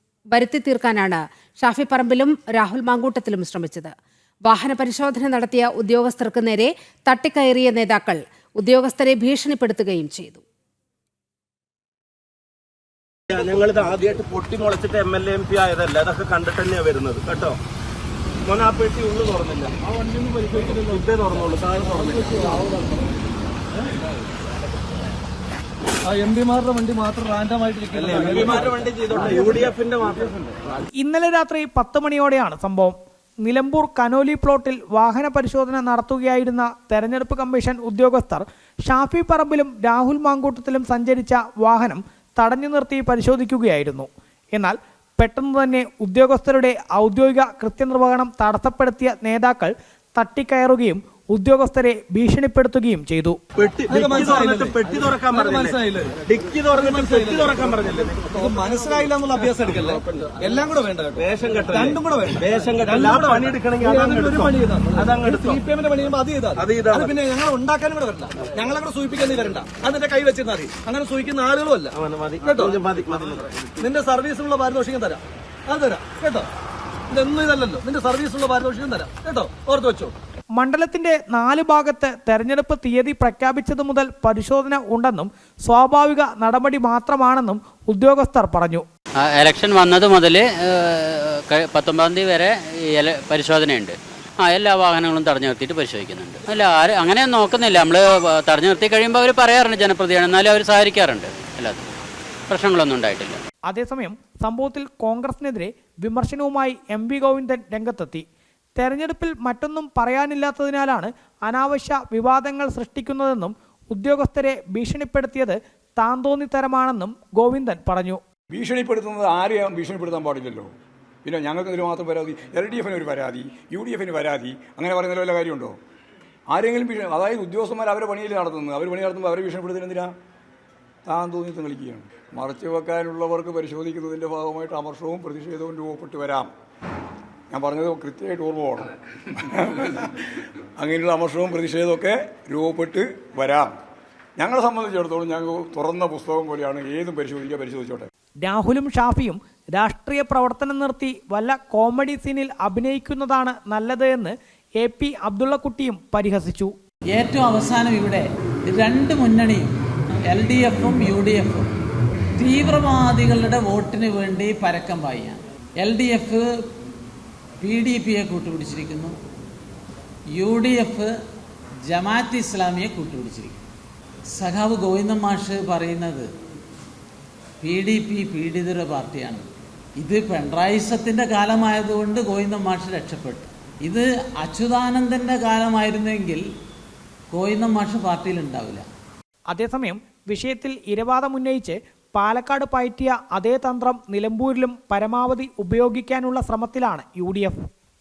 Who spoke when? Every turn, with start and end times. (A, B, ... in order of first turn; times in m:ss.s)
0:00.3-0:03.9 A
0:04.4-0:10.4 A
0:13.3-0:17.6 B
0:18.4-0:19.7 B
0:20.1-0:20.9 C
0:20.5-0:22.3 B
0:22.0-0:22.6 C
0:26.0-0:29.7 C
0:27.9-0:30.5 B
0:30.9-0:53.4 D
0:53.6-0:58.4 B
0:53.9-0:57.7 C
0:58.3-1:12.9 C
0:59.9-1:00.3 B
1:01.2-1:05.6 B
1:06.6-1:07.2 B
1:11.9-1:13.8 B
1:13.8-1:16.5 C
1:17.1-1:20.1 C
1:20.6-1:28.8 D
1:29.2-1:41.8 E
1:42.5-1:43.4 E
1:43.7-1:48.2 D
1:48.8-1:58.2 D
1:58.5-2:00.7 F
2:01.2-2:05.7 F
2:06.5-2:10.1 F
2:11.0-2:16.5 F
2:17.5-2:23.7 F
2:24.4-2:28.1 F
2:28.4-2:36.7 D
2:37.1-2:39.7 G
2:40.3-2:41.7 G
2:42.4-2:46.4 G
2:47.6-2:49.2 G
2:50.3-2:51.1 G
2:51.9-2:53.6 G
2:54.3-2:56.3 G
2:57.6-3:06.4 G
3:07.3-3:08.8 G
3:09.5-3:17.6 D